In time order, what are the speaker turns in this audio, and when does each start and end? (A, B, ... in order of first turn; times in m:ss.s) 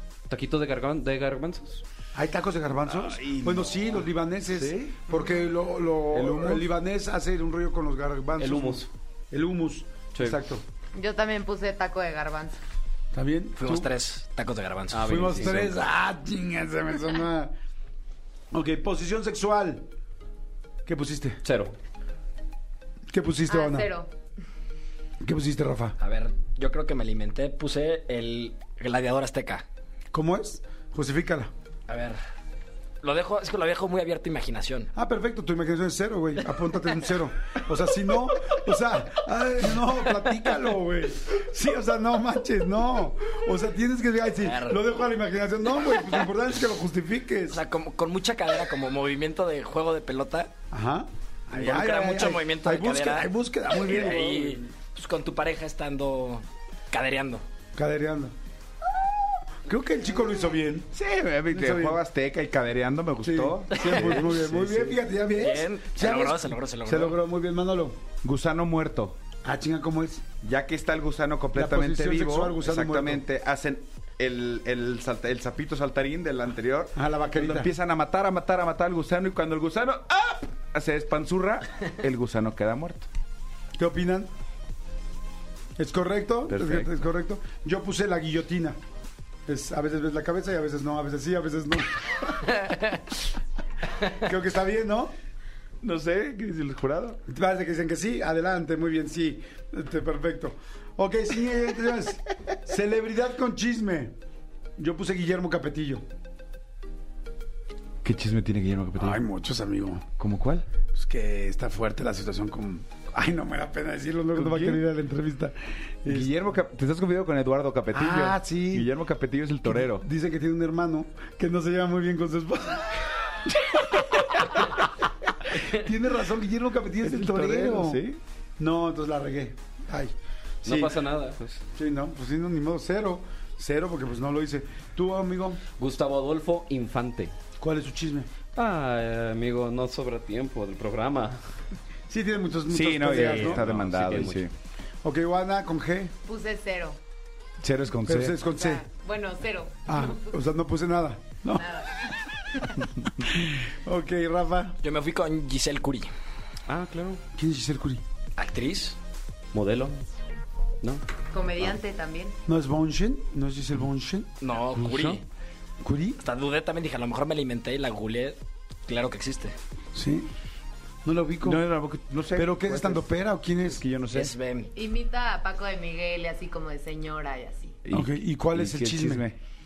0:00.3-0:01.8 A
0:02.2-0:10.6 B
0:02.9-0:05.0 C
0:06.1-0:06.7 C
0:08.4-0:08.9 A
0:11.0-0:12.6 D
0:13.1-0:13.9 B
0:13.6-0:15.6 E
0:14.9-0:15.8 A
0:15.0-0:17.5 B
0:18.5-0:19.9 B
0:20.9-0:21.4 B
0:21.4-0:21.8 A
0:23.1-0:23.9 B
0:23.5-0:24.1 D
0:25.2-0:26.0 B
0:26.0-0:29.6 E
0:30.1-0:31.5 B
0:31.9-0:32.2 E
0:33.0-0:34.9 E
0:35.0-0:47.6 B
0:44.4-0:44.8 E
0:47.5-0:50.5 E
0:50.7-0:54.7 B
0:51.5-0:57.4 E
0:57.8-0:58.3 B
0:59.0-1:00.9 B
1:00.9-1:05.0 C
1:01.5-1:02.0 B
1:03.2-1:08.0 B
1:03.8-1:04.3 E
1:05.4-1:07.2 E
1:08.2-1:09.2 C
1:09.4-1:10.2 B
1:10.4-1:23.1 C
1:11.5-1:13.2 B
1:17.0-1:17.7 B
1:23.8-1:24.3 B
1:25.8-1:28.8 B
1:26.5-1:26.9 C
1:29.5-1:32.6 B
1:34.0-1:35.1 B
1:35.8-1:37.2 C
1:37.3-1:44.1 B
1:44.8-1:46.0 B
1:48.0-1:49.2 C
1:49.0-1:50.1 B
1:50.2-1:50.7 C
1:50.9-1:56.3 B
1:54.3-1:54.8 C
1:56.1-2:00.1 C
1:57.9-1:58.9 B
1:59.6-2:04.8 B
2:05.4-2:08.0 B
2:07.0-2:08.2 C
2:08.6-2:10.1 B
2:10.6-2:11.6 A
2:10.7-2:11.0 B
2:11.8-2:15.6 B
2:15.8-2:17.3 A
2:17.6-2:18.3 B
2:18.6-2:21.4 A
2:22.1-2:23.6 B
2:22.7-2:24.5 C
2:23.0-2:24.4 A
2:25.0-2:26.1 B
2:26.3-2:27.0 D
2:27.6-2:28.4 C
2:28.0-2:28.8 B
2:28.4-2:30.4 D
2:29.9-2:31.7 B
2:31.6-2:32.7 D
2:32.8-2:34.8 B
2:34.8-2:36.1 E
2:36.7-2:37.2 A
2:37.4-2:38.0 B
2:38.4-2:39.0 E
2:39.5-2:40.0 A
2:41.3-2:42.4 D
2:42.5-2:44.3 B
2:44.4-2:45.2 E
2:44.7-2:45.2 A
2:45.8-2:46.2 B
2:46.2-2:49.6 E
2:50.0-2:50.3 B
2:51.0-2:51.6 B
2:51.4-2:53.1 C
2:52.4-2:53.8 B
2:53.6-2:54.3 C
2:54.1-2:54.7 E
2:54.8-2:57.8 D
2:57.8-2:59.4 C
2:57.9-2:59.2 B